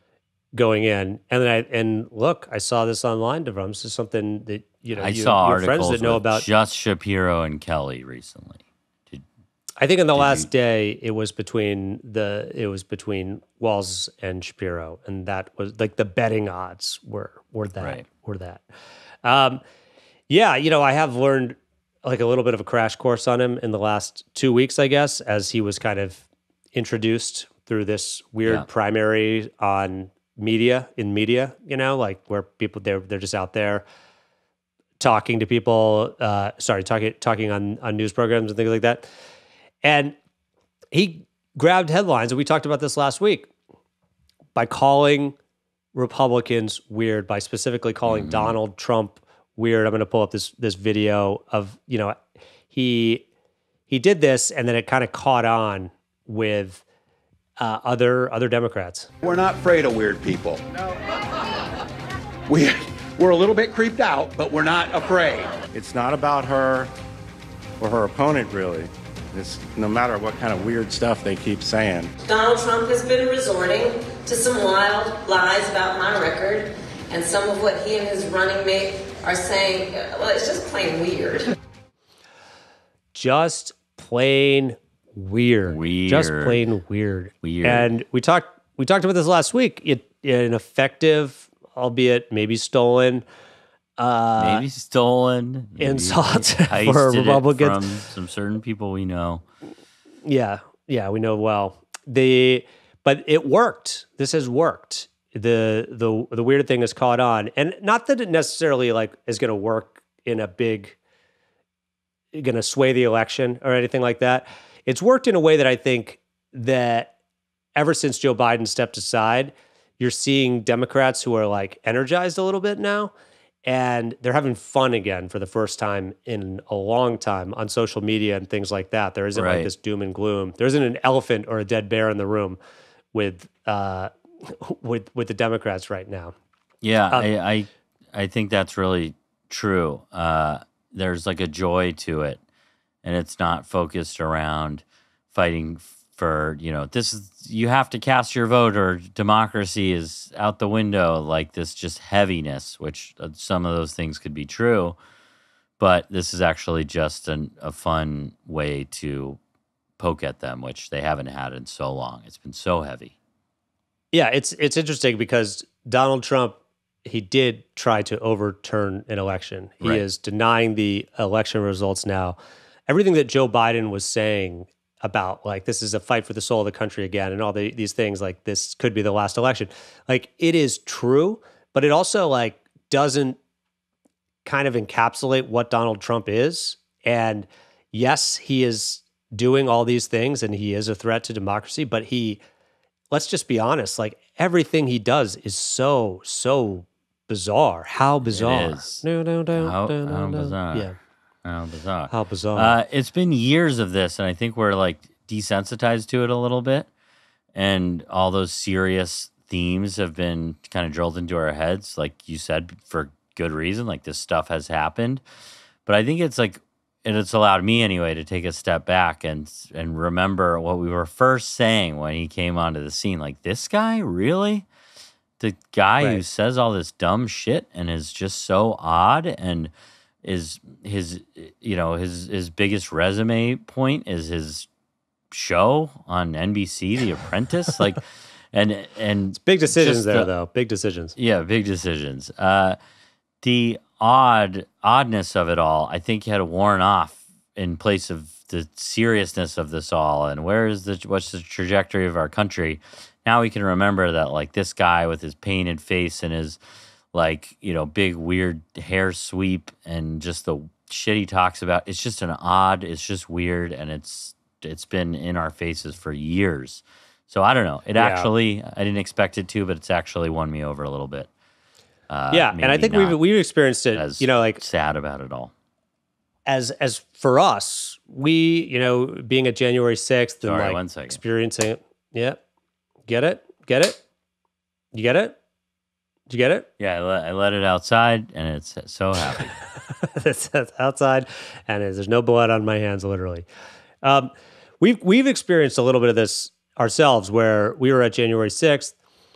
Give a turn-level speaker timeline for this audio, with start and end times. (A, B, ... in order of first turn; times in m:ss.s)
0:00.5-0:06.5 A
0:04.9-0:09.2 B
0:09.8-0:18.6 A
0:10.1-0:10.5 B
0:19.2-0:19.6 A
0:20.3-0:33.8 A
0:35.0-0:39.0 A
0:39.8-0:40.1 A
0:40.9-0:43.5 A
0:44.5-0:45.4 A
0:45.9-0:52.2 A
0:48.0-0:48.6 B
0:52.7-0:53.2 A
0:53.9-0:56.8 A
0:57.6-0:59.1 A
0:59.2-1:00.6 C
1:02.5-1:05.5 C
1:05.7-1:06.9 D
1:07.8-1:12.1 D
1:12.2-1:21.5 E
1:23.1-1:33.2 A
1:25.7-1:26.6 B
1:27.4-1:27.9 B
1:34.0-1:34.6 A
1:34.4-1:39.4 B
1:35.8-1:37.8 A
1:40.2-1:51.0 A
1:52.3-1:57.1 A
1:57.7-2:03.1 A
2:03.6-2:12.6 A
2:09.3-2:09.7 B
2:13.1-2:16.3 A
2:16.8-2:22.4 B
2:23.0-2:35.0 B
2:35.8-2:39.4 B
2:40.0-2:43.1 B
2:44.1-3:03.4 A
3:04.4-3:12.4 A
3:13.1-3:21.0 A
3:18.2-3:26.9 B
3:22.1-3:22.8 A
3:27.5-3:35.2 B
3:35.8-3:44.7 B
3:45.4-3:49.7 B
3:50.2-3:54.7 B
3:55.3-4:00.3 B
3:59.4-4:01.1 A
4:01.1-4:02.8 B
4:03.4-4:16.6 B
4:17.1-4:31.3 B
4:28.0-4:28.3 A
4:32.1-4:33.2 B
4:32.3-4:34.6 A
4:33.9-4:35.5 B
4:36.4-4:42.4 A
4:40.4-4:41.2 B
4:43.0-4:44.0 A
4:44.9-4:45.4 A
4:46.3-4:46.7 A
4:46.8-4:49.5 B
4:50.1-4:53.4 A
4:54.0-4:58.9 A